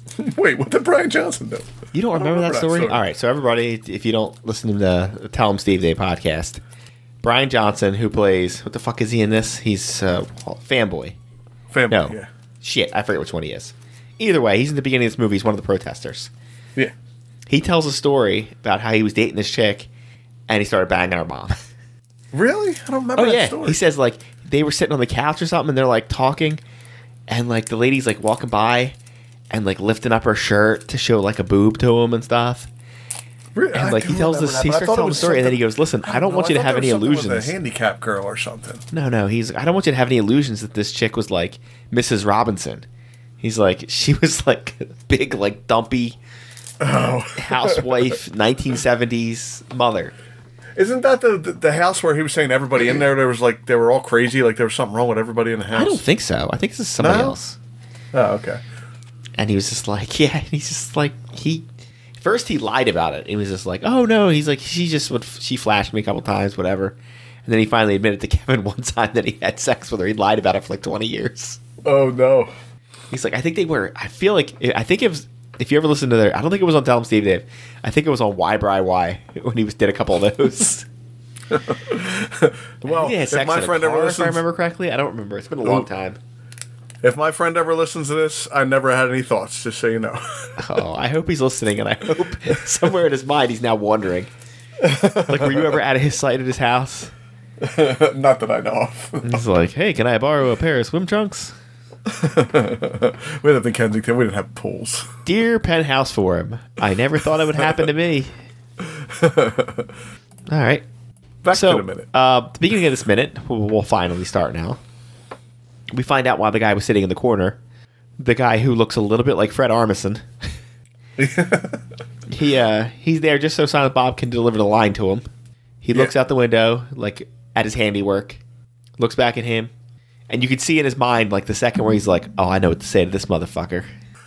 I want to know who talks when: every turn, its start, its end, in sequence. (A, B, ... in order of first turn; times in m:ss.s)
0:00.2-0:03.0 A
0:01.9-0:06.6 B
0:07.2-0:11.2 B
0:11.7-0:12.3 A
0:11.9-0:16.3 B
0:17.5-0:19.9 B
0:20.5-0:21.6 B
0:22.3-0:23.8 A
0:23.2-0:26.6 B
0:27.3-0:29.0 B
0:29.5-0:32.7 B
0:33.6-0:38.8 A
0:33.7-0:37.5 B
0:38.9-0:42.8 B
0:43.4-0:46.2 B
0:46.8-0:48.2 A
0:47.4-0:50.1 B
0:50.8-0:56.0 A
0:55.7-0:57.6 B
0:57.0-0:57.4 A
0:58.1-0:58.6 A
0:59.4-1:11.6 B
1:11.8-1:12.5 A
1:13.1-1:20.9 B
1:21.5-1:24.4 A
1:22.8-1:26.2 B
1:27.0-1:30.6 A
1:30.6-1:34.3 B
1:34.8-1:35.8 A
1:35.2-1:37.1 B
1:37.6-1:39.4 A
1:39.2-1:41.5 B
1:42.1-1:45.1 A
1:45.2-1:48.3 B
1:48.8-1:49.8 A
1:50.5-1:50.8 B
1:51.4-1:52.1 A
1:51.5-1:54.8 B
1:55.9-1:57.6 B
1:58.2-2:00.2 B
2:01.2-2:01.8 A
2:02.3-2:05.2 B
2:05.8-2:08.4 B
2:09.0-2:09.7 B
2:10.3-2:13.8 B